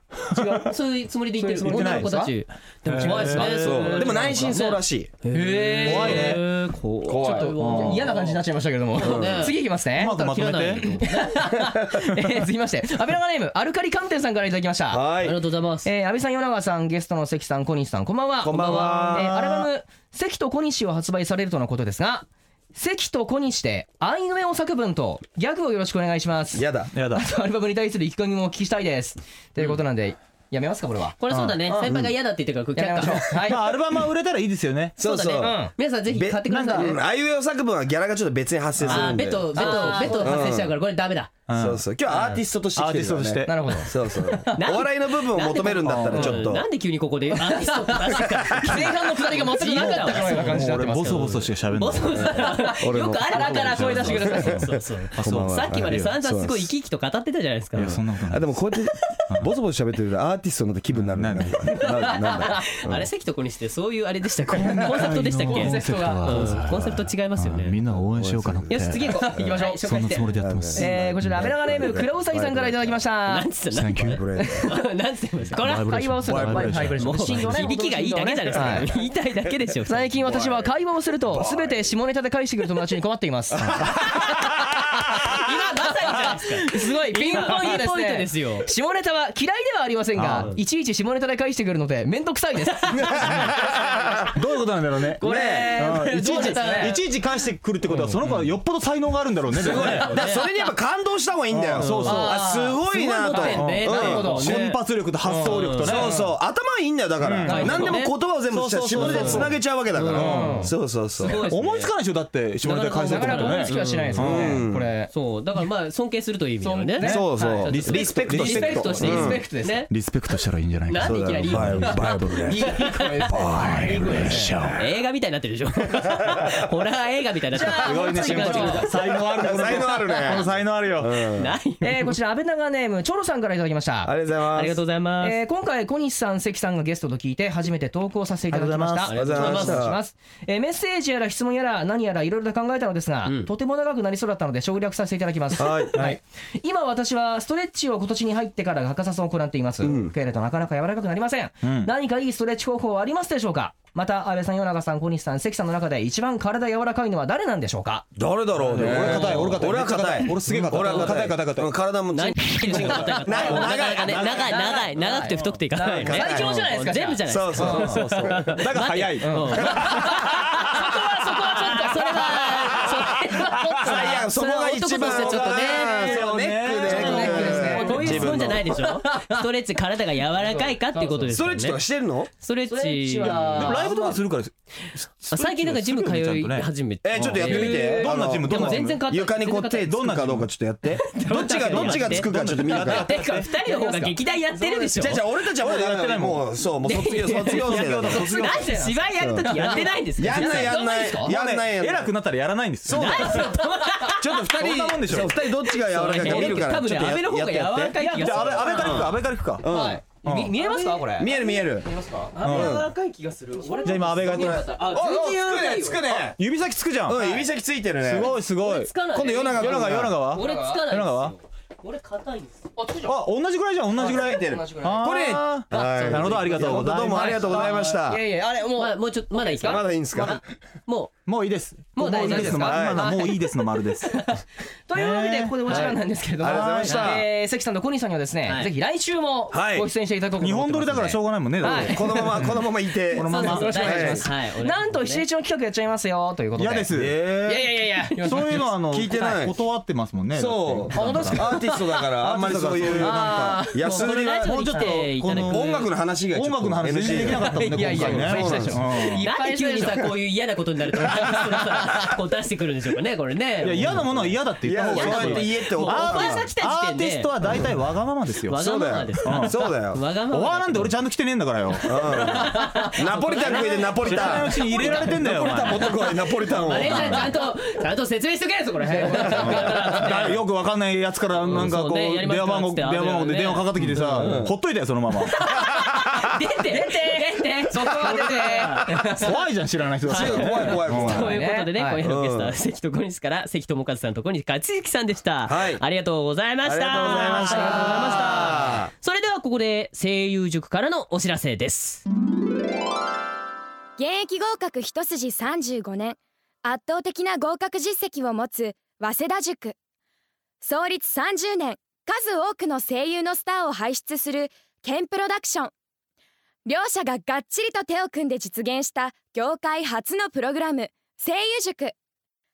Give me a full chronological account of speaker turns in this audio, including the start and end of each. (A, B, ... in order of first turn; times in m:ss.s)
0:00.2-0:00.8 A
0:00.3-0:00.6 B
0:00.6-0:08.4 C
0:01.3-0:02.3 A
0:01.6-0:04.4 B
0:03.0-0:04.6 A
0:03.4-0:05.1 D
0:05.3-0:06.4 A
0:05.8-0:06.5 B
0:07.0-0:07.7 D
0:07.1-0:15.0 A
0:07.5-0:08.1 B
0:09.0-0:09.6 C
0:09.0-0:09.4 D
0:09.9-0:10.9 B
0:10.1-0:11.0 C
0:11.6-0:12.0 D
0:14.9-0:15.4 D
0:15.2-0:15.9 C
0:15.8-0:31.9 A
0:18.4-0:19.3 D
0:18.5-0:19.7 B
0:26.5-0:26.9 D
0:26.9-0:27.2 B
0:31.2-0:33.2 C
0:31.3-0:31.6 B
0:31.9-0:32.1 D
0:32.7-0:33.7 A
0:33.3-0:35.0 B
0:35.0-0:40.7 D
0:35.0-0:37.0 C
0:35.4-0:35.7 A
0:36.4-0:37.0 B
0:38.8-0:39.3 B
0:38.9-0:41.3 C
0:39.5-0:40.5 A
0:41.5-0:41.8 B
0:41.5-0:46.6 D
0:42.1-0:42.4 C
0:42.7-0:43.8 B
0:43.4-0:44.7 A
0:44.5-0:58.0 C
0:45.6-0:46.6 B
0:47.3-0:51.5 A
0:49.7-0:52.4 B
0:52.2-0:56.7 D
0:52.4-0:54.6 A
0:53.7-0:56.1 B
0:57.7-0:58.5 B
0:58.3-1:03.1 D
1:00.9-1:01.6 B
1:01.8-1:07.8 C
1:04.5-1:09.3 B
1:05.4-1:06.6 A
1:07.9-1:09.8 D
1:08.7-1:10.2 C
1:09.1-1:13.5 A
1:09.8-1:12.1 B
1:10.3-1:13.0 D
1:13.3-1:20.0 C
1:13.7-1:14.2 B
1:14.0-1:14.7 D
1:15.5-1:17.7 B
1:15.6-1:19.0 A
1:18.5-1:19.5 D
1:19.8-1:33.5 A
1:20.2-1:20.7 D
1:21.3-1:21.7 D
1:23.5-1:24.0 D
1:23.7-1:25.5 B
1:25.4-1:28.7 C
1:30.1-1:30.5 B
1:33.0-1:40.3 B
1:33.2-1:34.3 D
1:35.2-1:37.0 A
1:35.2-1:35.8 D
1:36.3-1:37.0 C
1:37.9-1:38.5 C
1:39.6-1:44.4 D
1:39.6-1:40.4 A
1:39.8-1:40.4 C
1:41.5-1:42.4 B
1:41.8-1:44.8 C
1:42.1-1:44.6 A
1:43.4-1:46.1 B
1:45.2-1:46.3 A
1:45.4-1:46.1 C
1:45.8-1:51.4 D
1:47.2-1:54.6 B
1:47.4-1:48.1 C
1:47.5-1:48.0 A
1:48.9-1:51.9 C
1:49.0-1:49.5 A
1:50.1-1:50.7 A
1:52.6-1:54.6 C
1:53.0-1:55.1 A
1:54.2-1:54.9 D
1:55.1-1:59.9 C
1:56.6-1:59.8 A
1:57.0-2:04.8 B
1:57.0-1:59.4 D
2:00.9-2:02.0 C
2:01.0-2:04.8 D
2:02.5-2:04.2 A
2:02.6-2:03.3 C
2:03.8-2:08.9 C
2:07.5-2:09.0 A
2:07.8-2:11.4 B
2:09.0-2:11.5 D
2:11.4-2:12.1 C
2:11.8-2:14.1 A
2:14.0-2:14.8 D
2:14.5-2:15.4 C
2:15.2-2:39.5 A
2:18.5-2:19.6 B
2:19.1-2:19.9 C
2:19.1-2:20.0 D
2:23.2-2:23.5 C
2:25.6-2:26.1 D
2:25.9-2:26.2 B
2:29.8-2:30.1 D
2:31.6-2:31.9 B
2:38.2-2:44.4 D
2:38.6-2:41.7 B
2:38.8-2:39.4 C
2:40.8-2:41.1 C
2:42.1-2:50.4 C
2:42.6-2:48.0 A
2:43.3-2:44.7 B
2:45.3-2:45.6 B
2:45.9-2:46.6 D
2:47.2-2:48.3 D
2:47.6-2:50.7 B
2:49.2-2:54.2 A
2:49.6-2:50.1 D
2:51.6-2:56.2 C
2:53.4-2:53.8 B
2:53.7-2:58.6 D
2:54.9-2:58.4 B
2:56.8-2:59.4 A
2:56.9-3:01.8 C
3:00.3-3:01.3 A
3:01.3-3:02.3 D
3:02.4-3:03.8 C
3:02.7-3:04.2 A
3:03.2-3:03.8 D
3:03.3-3:09.0 B
3:05.3-3:09.8 C
3:07.0-3:13.1 D
3:07.4-3:07.9 A
3:09.8-3:10.5 B
3:11.1-3:15.2 C
3:11.4-3:13.4 B
3:12.9-3:15.0 A
3:15.0-3:22.1 D
3:15.6-3:16.5 B
3:16.8-3:20.9 C
3:17.5-3:18.6 B
3:18.1-3:21.3 A
3:21.1-3:23.5 B
3:22.8-3:23.6 D
3:22.9-3:24.2 C
3:24.2-3:30.0 D
3:24.2-3:25.5 B
3:25.7-3:29.1 C
3:26.0-3:26.7 B
3:28.0-3:29.7 B
3:28.2-3:29.0 A
3:29.6-3:32.7 A
3:30.2-3:30.6 B
3:31.1-3:31.9 D
3:32.4-3:36.0 C
3:32.4-3:32.8 B
3:32.4-3:32.9 D
3:33.6-3:36.0 A
3:33.8-3:34.7 B
3:34.7-3:36.4 D
3:36.1-3:37.5 B
3:37.0-3:38.4 D
3:38.0-3:38.9 B
3:38.6-3:42.6 C
3:39.1-3:40.2 D
3:39.5-3:41.3 B
3:40.3-3:40.8 A
3:42.8-3:43.2 A
3:43.0-3:47.7 B
3:43.9-3:45.2 A
3:44.0-3:48.2 D
3:45.7-3:47.1 C
3:46.5-3:49.8 A
3:48.8-3:51.1 C
3:49.6-3:50.4 D
3:51.2-3:54.4 B
3:52.0-3:53.0 C
3:52.0-3:53.3 A
3:52.3-3:53.1 D
3:54.9-4:02.5 A
3:54.9-3:57.1 B
3:55.7-3:57.2 D
3:59.5-3:59.9 D
4:00.4-4:04.2 B
4:01.6-4:04.2 D
4:03.1-4:09.4 A
4:03.3-4:05.2 C
4:06.6-4:13.6 B
4:08.9-4:09.6 D
4:10.3-4:18.8 D
4:10.9-4:12.0 A
4:12.9-4:14.2 A
4:13.8-4:15.9 C
4:14.7-4:15.0 A
4:15.1-4:19.3 B
4:17.3-4:20.2 A
4:19.2-4:27.3 C
4:21.0-4:21.4 A
4:23.6-4:28.6 B
4:24.6-4:26.5 D
4:28.5-4:30.9 C
4:28.5-4:30.0 D
4:29.2-4:29.6 B
4:30.3-4:32.3 B
4:31.8-4:37.3 D
4:32.3-4:35.2 C
4:33.4-4:35.9 B
4:36.6-4:40.4 C
4:38.8-4:40.1 A
4:39.3-4:45.5 B
4:41.4-4:44.4 C
4:43.9-4:44.5 D
4:45.4-4:48.9 C
4:46.7-4:49.3 A
4:49.1-4:51.4 B
4:50.1-4:51.4 D
4:50.1-5:02.0 C
4:51.1-4:52.0 A
4:52.0-4:52.6 D
4:55.4-4:55.8 D
4:56.6-4:58.9 D
4:56.9-4:58.3 B
4:57.5-4:58.1 A
5:04.0-5:09.7 E
5:10.6-5:15.7 E
5:16.6-5:21.9 E